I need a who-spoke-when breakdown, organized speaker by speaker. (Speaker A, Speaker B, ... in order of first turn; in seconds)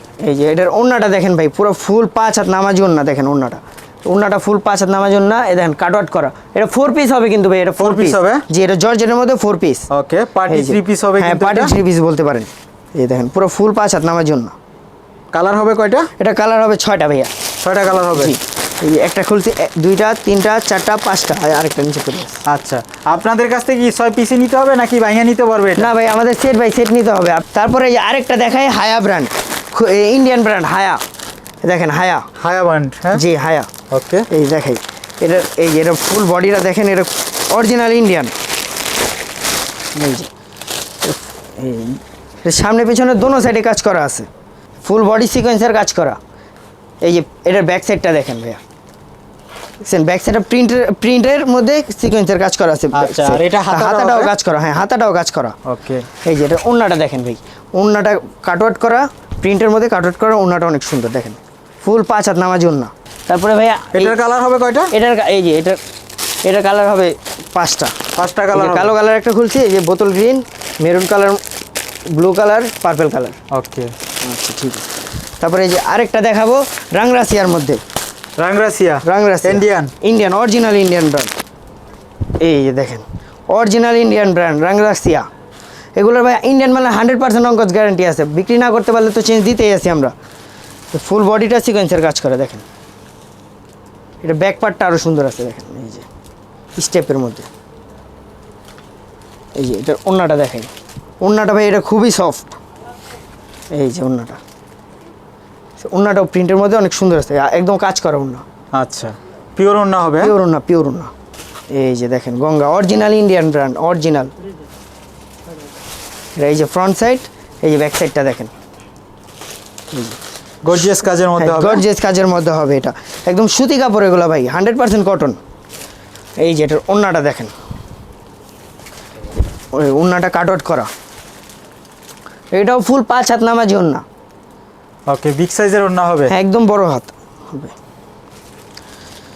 Speaker A: 0.2-9.9, 10.5-14.5, 16.2-17.3, 18.1-22.4, 25.8-31.0, 31.6-32.3, 33.1-33.7, 34.3-38.3, 40.0-40.3, 41.0-44.3, 44.8-46.2, 47.0-48.6, 49.8-55.5, 56.2-64.2, 64.9-65.8, 66.4-68.0, 68.5-71.4, 72.1-73.4, 74.2-74.9, 75.4-77.8, 79.0-81.3, 82.4-85.3, 86.0-90.1, 90.9-92.6, 94.2-96.1, 96.8-97.5, 99.6-100.7, 101.2-102.5, 103.7-104.4, 105.8-108.4, 110.2-111.1, 111.7-114.3, 116.4-118.5, 119.9-120.2, 120.7-125.4, 126.4-127.5, 129.7-130.9, 132.5-134.0, 136.3-137.7
Speaker B: 7.8-8.4, 9.9-11.7, 15.3-16.1, 17.6-18.3, 22.5-25.9, 32.4-33.2, 33.9-34.3, 52.9-54.3, 55.6-56.1, 63.9-64.9, 68.2-68.9, 73.5-73.9, 78.4-79.9, 108.7-110.3, 120.6-121.8, 135.1-136.3